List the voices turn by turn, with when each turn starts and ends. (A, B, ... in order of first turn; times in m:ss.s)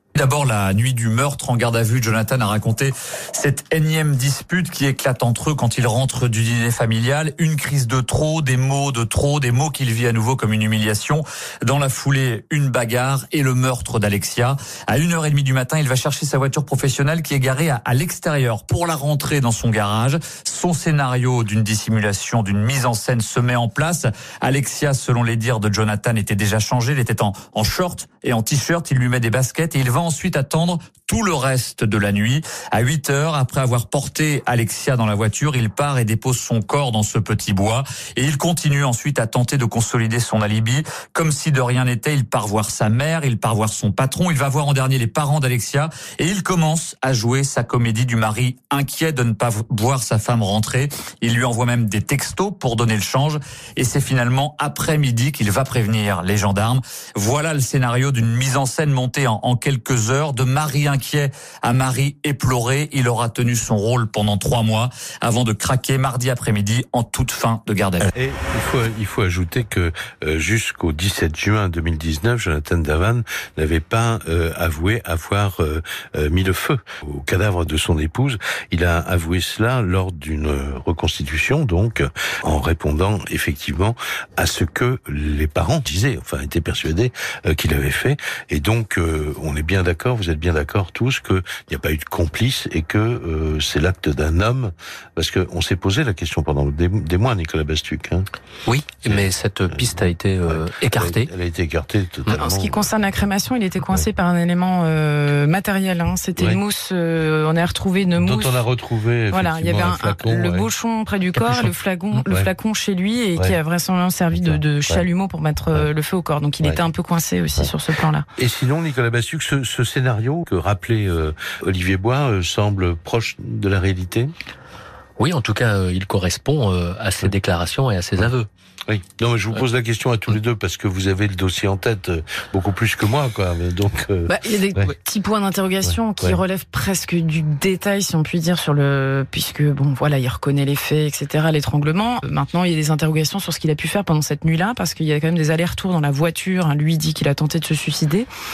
0:00.2-1:08.1 A
1:08.1-1:38.3 B
1:38.7-1:41.3 C
1:39.1-1:42.9 B
1:42.3-1:48.6 D
1:48.2-1:50.7 B
1:49.3-1:58.3 D
1:51.4-1:51.7 B
1:54.3-1:55.0 B
1:58.4-2:04.3 B
2:05.2-2:08.5 C
2:08.9-2:14.9 B
2:14.3-2:28.3 D
2:15.8-2:16.4 B